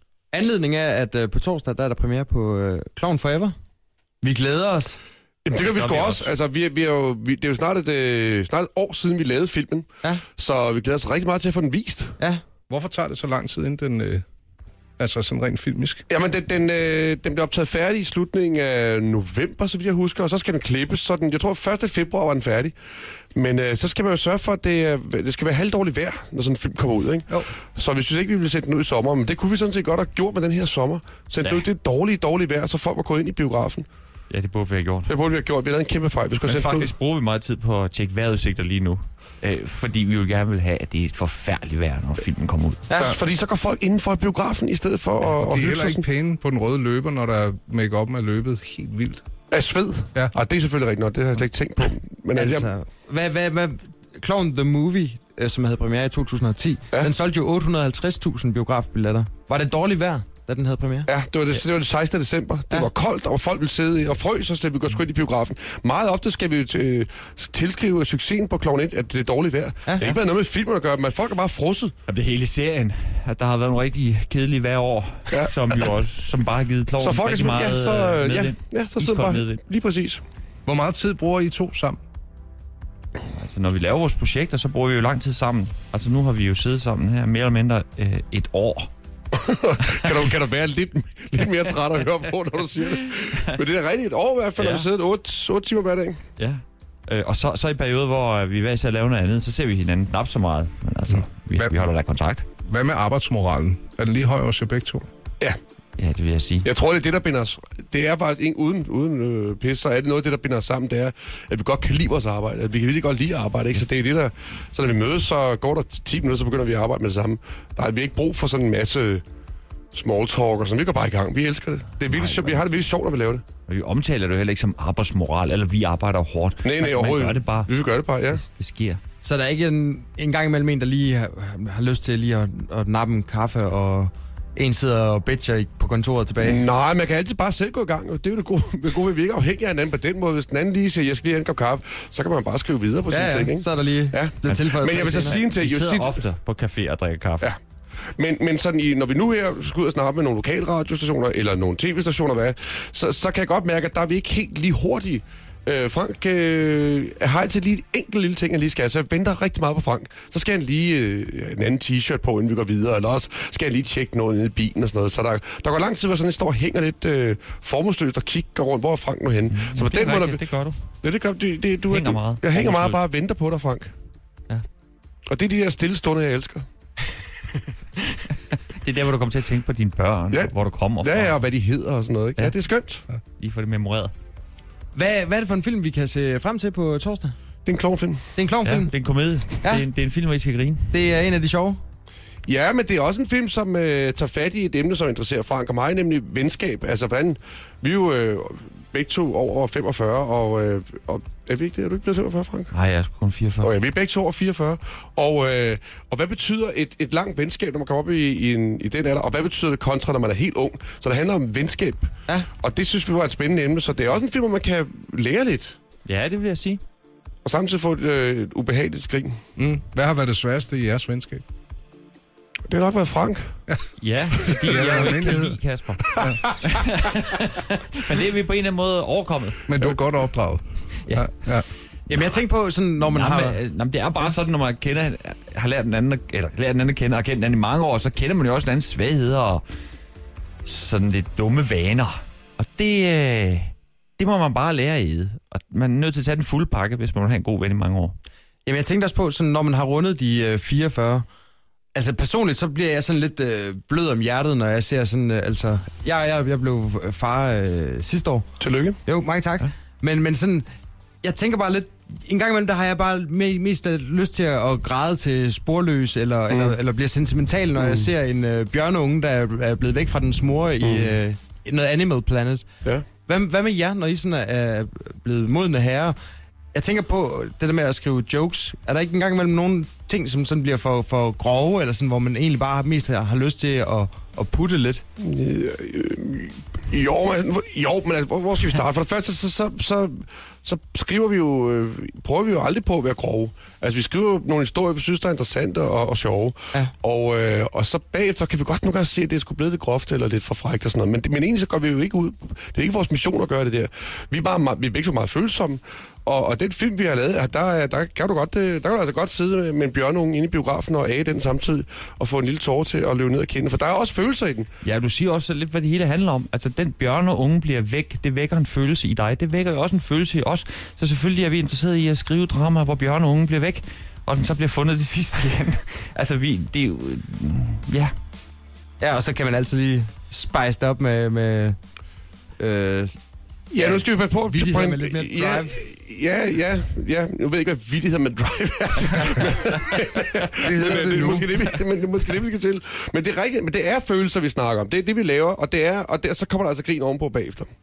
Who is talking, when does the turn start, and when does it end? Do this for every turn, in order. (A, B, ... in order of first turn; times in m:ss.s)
0:00.3-0:03.5 A
0:04.2-0:05.0 A
0:05.4-0:12.2 B
0:05.5-0:06.3 C
0:12.7-0:14.2 D
0:15.0-0:16.0 D
0:16.1-0:22.8 B
0:23.3-0:33.9 B
0:31.4-0:31.6 C
0:34.3-0:35.1 C
0:35.1-0:36.9 B
0:36.4-0:42.8 C
0:42.9-0:46.0 B
0:45.3-0:49.2 D
0:49.5-0:52.7 B
0:52.3-1:01.1 A
1:01.1-1:11.9 B
1:09.9-1:10.1 A
1:12.1-1:19.6 C
1:15.3-1:15.8 B
1:17.0-1:20.2 B
1:20.6-1:22.0 D
1:23.3-1:28.9 C
1:29.3-1:36.2 B
1:34.6-1:34.9 C
1:36.4-1:42.4 C
1:42.6-1:45.1 D
1:46.0-1:46.7 C
1:46.6-1:59.2 B
1:59.9-2:03.4 B
2:02.0-2:02.6 C
2:03.7-2:07.7 C
2:06.6-2:08.4 B
2:08.3-2:09.0 C
2:09.2-2:16.6 A
2:16.4-2:26.2 B
2:23.1-2:25.4 A
2:24.4-2:27.5 C
2:28.2-2:50.4 B
2:49.5-2:50.8 C
2:51.0-2:53.9 B
2:51.9-2:53.0 C
2:55.3-2:56.6 B
2:58.7-3:01.4 C
3:00.3-3:03.0 B
3:03.4-3:04.1 C
3:04.9-3:07.3 A
3:07.6-3:08.3 B
3:08.4-3:08.9 A
3:08.6-3:10.8 C
3:10.9-3:11.8 A
3:12.4-3:22.7 B
3:22.7-3:23.7 C
3:23.6-3:35.8 B
3:36.0-3:36.8 C
3:37.4-3:39.4 B
3:39.6-3:41.4 D
3:42.7-3:43.5 B
3:44.0-3:49.6 C
3:44.5-3:45.6 D
3:44.7-3:45.0 B
3:46.2-3:46.5 D
3:49.7-3:51.7 D
3:52.1-3:53.6 A
3:53.0-3:59.6 C
4:00.6-4:08.2 C
4:08.6-4:11.2 A
4:11.9-4:18.4 A
4:18.6-4:19.0 B
4:19.0-4:20.6 A
4:21.2-4:32.6 A
4:27.8-4:28.1 B
4:30.8-4:31.1 B
4:33.2-4:36.1 A
4:36.7-4:45.0 A
4:45.2-5:14.7 B
5:14.8-5:28.1 C
5:29.0-5:31.8 A
5:32.6-5:33.1 A
5:33.7-5:47.7 B
5:33.7-5:35.8 A
5:40.6-5:41.7 D